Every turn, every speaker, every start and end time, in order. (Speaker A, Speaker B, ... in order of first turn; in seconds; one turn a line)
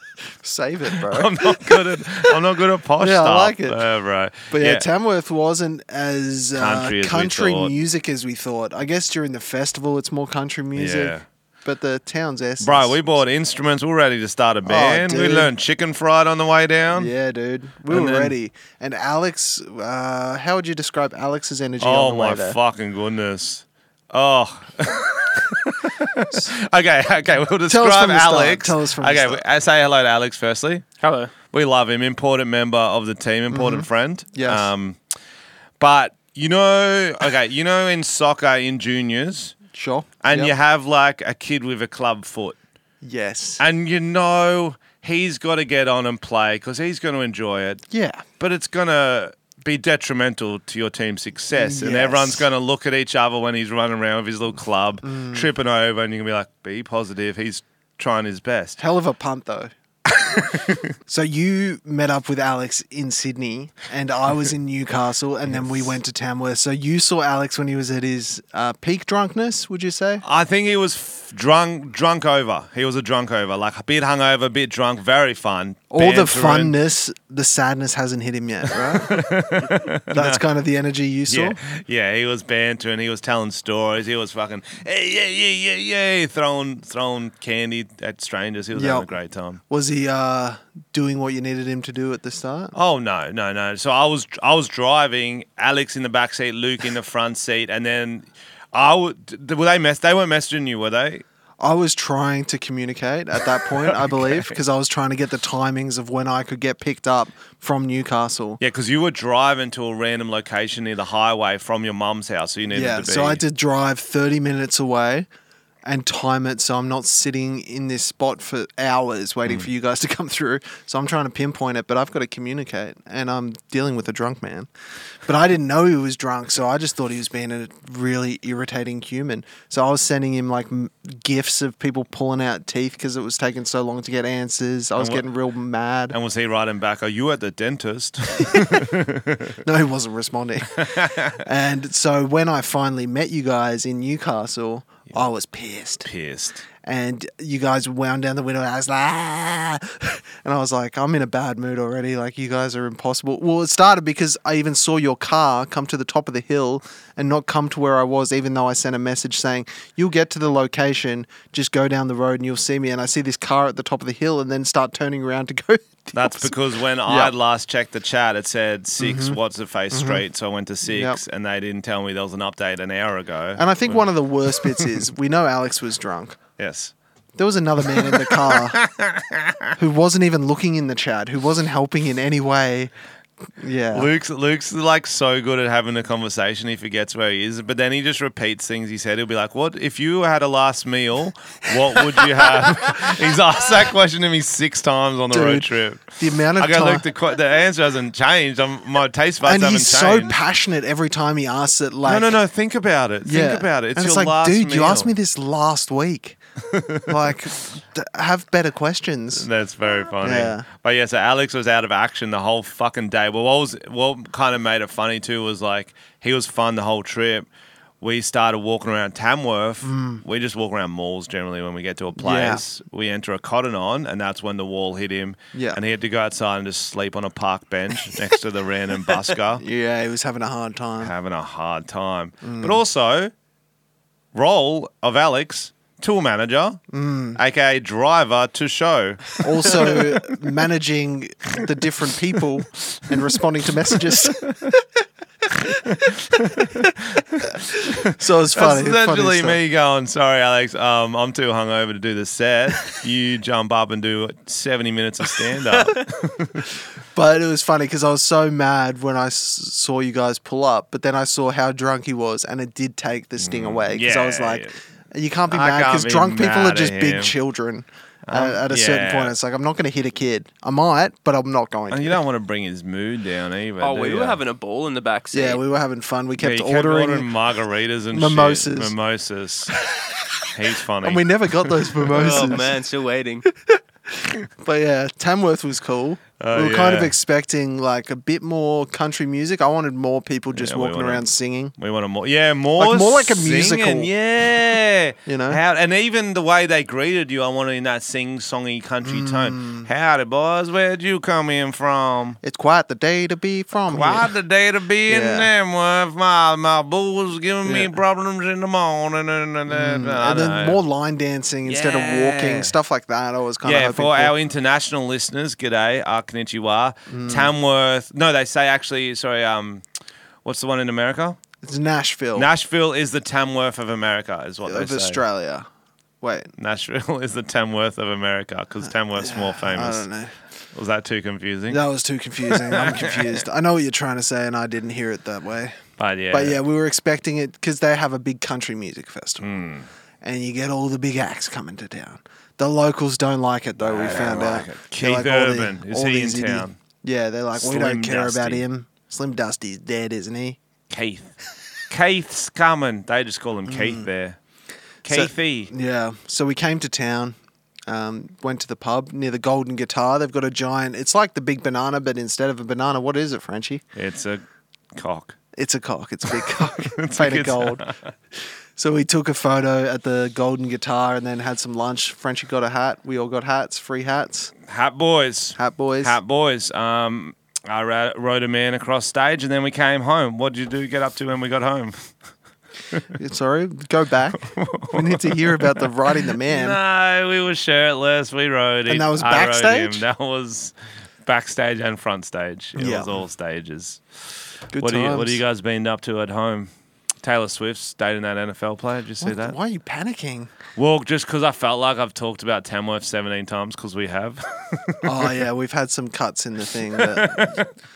Speaker A: 0.3-2.4
Speaker B: 1.0-4.8
Speaker A: 3.0-3.8
Speaker A: 4.5-13.0
Speaker B: 6.6-7.7
Speaker B: 10.8-11.2
Speaker B: 12.6-17.1
Speaker A: 14.7-15.5
Speaker A: 16.9-22.6
Speaker B: 17.9-18.3
Speaker B: 21.8-30.9
Speaker A: 27.7-29.4
Speaker C: 31.0-31.3
Speaker B: 31.5-35.0
Speaker A: 33.5-34.7
Speaker B: 35.8-39.6
Speaker A: 39.7-40.5
Speaker B: 40.2-42.6
Speaker A: 43.0-43.6
Speaker B: 43.6-47.8
Speaker A: 47.9-48.2
Speaker B: 48.4-58.8
Speaker A: 51.5-52.5
Speaker A: 55.0-55.5
Speaker A: 58.8-59.7
Speaker B: 60.1-60.9
Speaker A: 61.0-70.2
Speaker B: 65.5-65.9
Speaker B: 70.2-76.8
Speaker A: 75.9-81.6
Speaker B: 78.7-80.4
Speaker B: 81.3-89.6
Speaker A: 88.7-89.1
Speaker A: 89.7-92.8
Speaker B: 92.7-101.2
Speaker A: 101.6-108.6
Speaker B: 103.9-104.5
Speaker B: 108.6-113.4
Speaker A: 112.7-115.3
Speaker A: 115.8-124.7
Speaker A: 125.3-136.2
Speaker B: 135.0-135.2
Speaker B: 136.1-139.6
Speaker A: 139.6-146.1
Speaker B: 140.8-141.4
Speaker B: 146.1-146.6
Speaker A: 146.8-166.5
Speaker B: 166.1-174.9
Speaker A: 167.1-167.3
Speaker A: 169.0-169.4
Speaker A: 169.9-170.2
Speaker A: 170.8-171.2
Speaker A: 173.6-176.4
Speaker B: 176.6-176.9
Speaker A: 177.4-178.8
Speaker B: 177.9-179.8
Speaker A: 179.8-182.9
Speaker A: 183.6-184.1
Speaker B: 183.9-200.4
Speaker A: 192.2-192.6
Speaker A: 195.3-197.1
Speaker A: 199.4-202.4
Speaker B: 202.1-205.1
Speaker A: 203.3-206.4
Speaker B: 206.6-207.1
Speaker A: 207.1-209.5
Speaker B: 209.3-217.5
Speaker A: 210.2-210.7
Speaker B: 218.0-229.6
Speaker A: 219.8-220.2
Speaker A: 222.2-222.6
Speaker A: 225.5-225.8
Speaker A: 229.3-231.1
Speaker B: 231.0-233.3
Speaker A: 232.4-232.8
Speaker B: 234.3-236.8
Speaker A: 236.9-237.4
Speaker B: 237.3-240.3
Speaker A: 239.4-244.8
Speaker B: 242.9-243.2
Speaker B: 243.8-244.6
Speaker B: 245.6-256.7
Speaker A: 247.4-249.6
Speaker A: 257.1-272.2
Speaker B: 263.4-264.8
Speaker B: 265.5-267.4
Speaker B: 268.3-269.3
Speaker B: 271.9-274.4
Speaker C: 273.8-275.6
Speaker A: 275.3-277.3
Speaker B: 276.4-279.8
Speaker A: 278.1-278.9
Speaker A: 279.9-280.2
Speaker B: 280.5-282.6
Speaker A: 281.0-282.8
Speaker C: 282.1-283.5
Speaker A: 283.5-291.8
Speaker B: 286.4-287.1
Speaker B: 290.5-302.4
Speaker A: 292.8-294.1
Speaker A: 295.3-295.6
Speaker A: 299.0-299.9
Speaker A: 302.4-304.3
Speaker B: 303.9-310.8
Speaker A: 305.1-305.5
Speaker A: 307.6-307.9
Speaker A: 309.7-314.4
Speaker B: 311.6-312.8
Speaker B: 313.6-319.8
Speaker A: 317.1-317.5
Speaker B: 320.4-321.4
Speaker A: 321.6-322.5
Speaker B: 322.4-325.2
Speaker A: 324.6-325.7
Speaker A: 326.2-326.5
Speaker B: 326.6-330.1
Speaker A: 329.1-330.3
Speaker B: 330.7-331.8
Speaker A: 331.7-335.8
Speaker B: 332.5-333.4
Speaker B: 336.0-336.6
Speaker A: 336.3-339.4
Speaker B: 339.4-339.9
Speaker A: 340.2-350.6
Speaker B: 343.8-346.8
Speaker B: 347.6-348.7
Speaker B: 350.9-351.4
Speaker B: 351.9-354.4
Speaker A: 353.7-354.1
Speaker B: 355.0-355.7
Speaker A: 355.1-357.4
Speaker A: 357.9-363.8
Speaker B: 363.9-364.4
Speaker B: 365.0-365.4
Speaker A: 365.5-367.9
Speaker B: 366.8-368.1
Speaker A: 368.8-374.5
Speaker B: 374.7-382.1
Speaker A: 375.6-376.2
Speaker A: 383.1-386.8
Speaker B: 384.4-390.7
Speaker A: 388.9-390.1
Speaker B: 391.2-394.2
Speaker A: 392.8-393.2
Speaker A: 394.7-395.4
Speaker B: 394.8-396.7
Speaker B: 397.2-399.6
Speaker A: 399.2-400.5
Speaker B: 400.8-405.4
Speaker A: 405.0-407.6
Speaker B: 406.9-407.7